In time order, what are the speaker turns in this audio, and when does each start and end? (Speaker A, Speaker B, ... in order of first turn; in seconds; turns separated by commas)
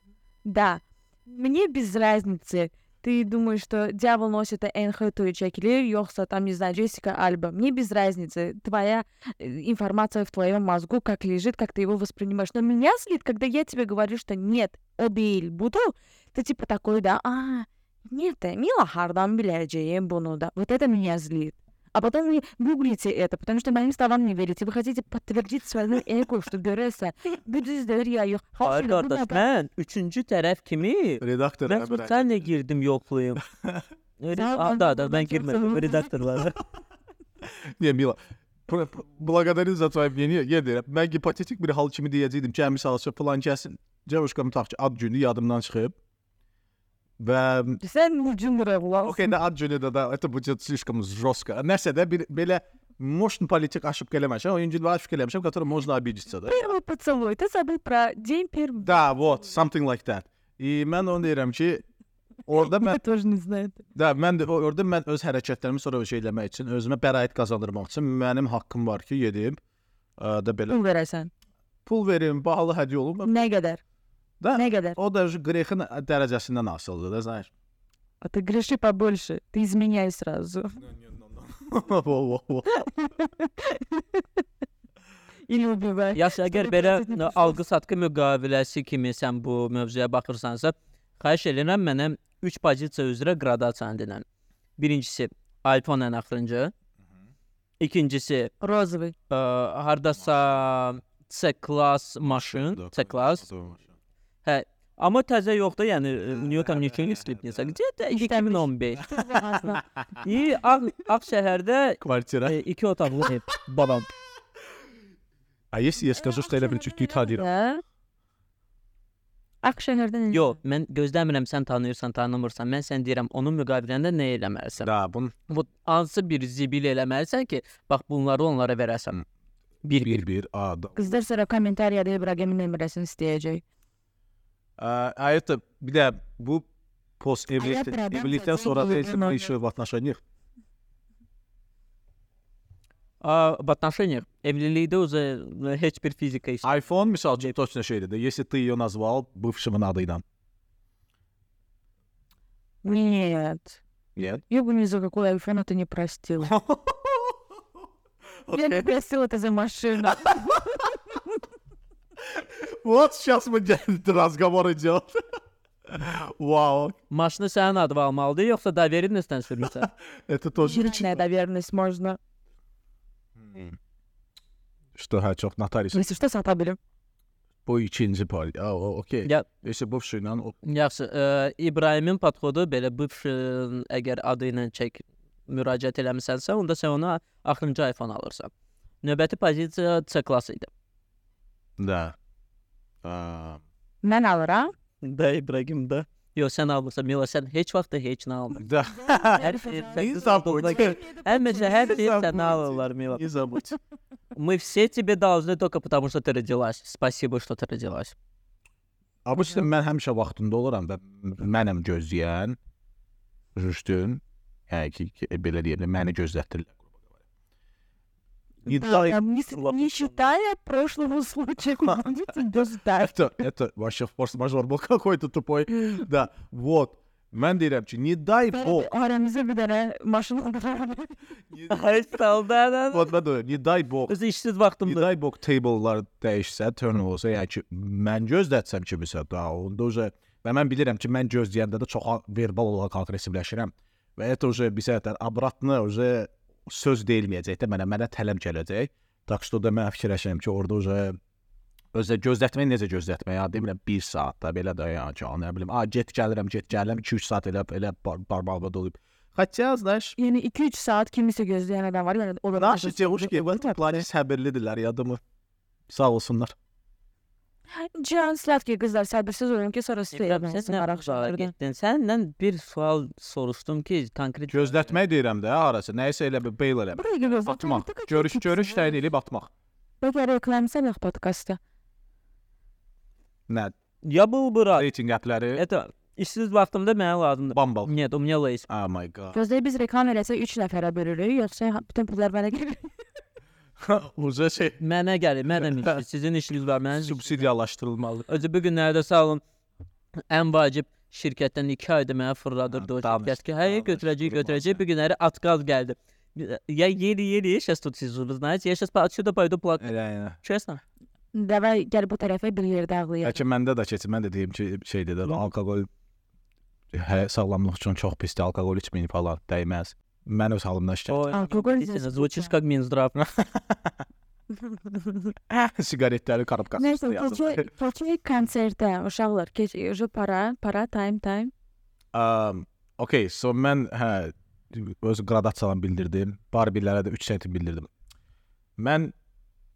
Speaker A: 0.4-29.4, Speaker B: 28.6-33.4, Speaker C: 31.2-32.4, Speaker B: 34.2-36.6, Speaker A: 34.4-36.3, Speaker C: 37.4-46.0, Speaker C: 47.2-47.8, Speaker A: 47.8-49.3, Speaker C: 49.0-56.6, Speaker A: 56.4-58.9, Speaker C: 58.8-61.9, Speaker C: 62.5-63.0, Speaker A: 62.6-63.8, Speaker C: 63.9-69.6, Speaker C: 70.2-70.8, Speaker A: 70.7-71.3, Speaker C: 71.9-73.3, Speaker A: 73.2-73.8, Speaker C: 74.4-77.5, Speaker A: 74.5-75.0, Speaker A: 78.2-80.8, Speaker C: 80.8-82.7, Speaker A: 82.7-84.4, Speaker A: 85.5-87.6, Speaker B: 86.1-94.2, Speaker B: 94.8-96.7, Speaker B: 97.8-98.5, Speaker A: 98.6-99.1, Speaker B: 99.3-103.5, Speaker C: 102.2-103.9, Speaker B: 104.4-109.1, Speaker A: 108.1-109.8, Speaker B: 110.2-114.1, Speaker C: 112.0-112.6, Speaker C: 115.7-117.5, Speaker A: 116.1-117.8, Speaker A: 119.6-120.5, Speaker B: 120.3-124.9, Speaker C: 124.8-125.3, Speaker B: 125.5-129.2, Speaker B: 129.8-130.2, Speaker C: 130.0-131.1, Speaker A: 130.9-133.6, Speaker C: 134.8-136.7, Speaker C: 137.2-140.2, Speaker A: 137.6-139.5, Speaker B: 143.2-146.7, Speaker C: 146.6-150.2, Speaker A: 152.8-153.8, Speaker C: 154.2-154.4, Speaker A: 154.5-156.5, Speaker C: 156.4-157.4, Speaker C: 158.5-158.9, Speaker A: 158.5-160.9, Speaker C: 160.1-160.3, Speaker C: 162.2-165.2, Speaker C: 165.9-166.9, Speaker B: 167.1-169.9, Speaker C: 169.7-171.2, Speaker A: 170.6-172.2, Speaker C: 173.4-173.8, Speaker C: 174.9-176.0, Speaker A: 175.9-176.8, Speaker C: 177.7-180.6, Speaker B: 180.6-188.5, Speaker B: 189.0-190.7, Speaker C: 191.8-192.2, Speaker C: 193.0-193.6, Speaker A: 194.0-194.7, Speaker B: 195.0-198.7, Speaker C: 198.6-201.0, Speaker A: 199.1-202.0, Speaker B: 199.4-203.2, Speaker C: 201.7-203.8, Speaker B: 204.3-208.1, Speaker C: 209.2-212.6, Speaker C: 213.5-217.0, Speaker C: 218.6-219.2, Speaker A: 218.7-223.3, Speaker B: 219.5-220.3, Speaker C: 223.0-228.9, Speaker A: 228.5-231.2, Speaker C: 231.5-231.8, Speaker B: 231.7-233.1, Speaker C: 232.9-234.1, Speaker B: 234.1-235.0, Speaker C: 234.8-251.2, Speaker C: 251.9-260.1, Speaker A: 260.2-264.0, Speaker C: 262.6-265.2, Speaker C: 265.9-266.5, Speaker A: 267.8-271.5, Speaker B: 270.1-274.9, Speaker C: 274.5-279.5, Speaker A: 276.9-279.0, Speaker A: 280.0-281.6, Speaker C: 283.5-283.7, Speaker B: 284.0-284.9, Speaker C: 284.7-285.6, Speaker B: 285.5-288.7, Speaker C: 287.5-287.9, Speaker C: 288.7-289.4, Speaker A: 289.3-292.9, Speaker C: 293.8-294.8, Speaker B: 294.8-297.5, Speaker C: 295.5-296.0, Speaker C: 296.9-298.3, Speaker B: 298.3-299.4, Speaker B: 300.3-310.8, Speaker C: 302.7-304.8, Speaker C: 309.8-310.4, Speaker A: 311.3-313.4, Speaker C: 313.2-315.9, Speaker C: 316.9-321.2, Speaker B: 321.1-323.2, Speaker A: 321.3-322.5, Speaker C: 323.1-324.0, Speaker A: 324.6-325.3, Speaker C: 325.5-327.7, Speaker A: 326.8-331.5, Speaker C: 332.1-337.9, Speaker C: 338.8-339.1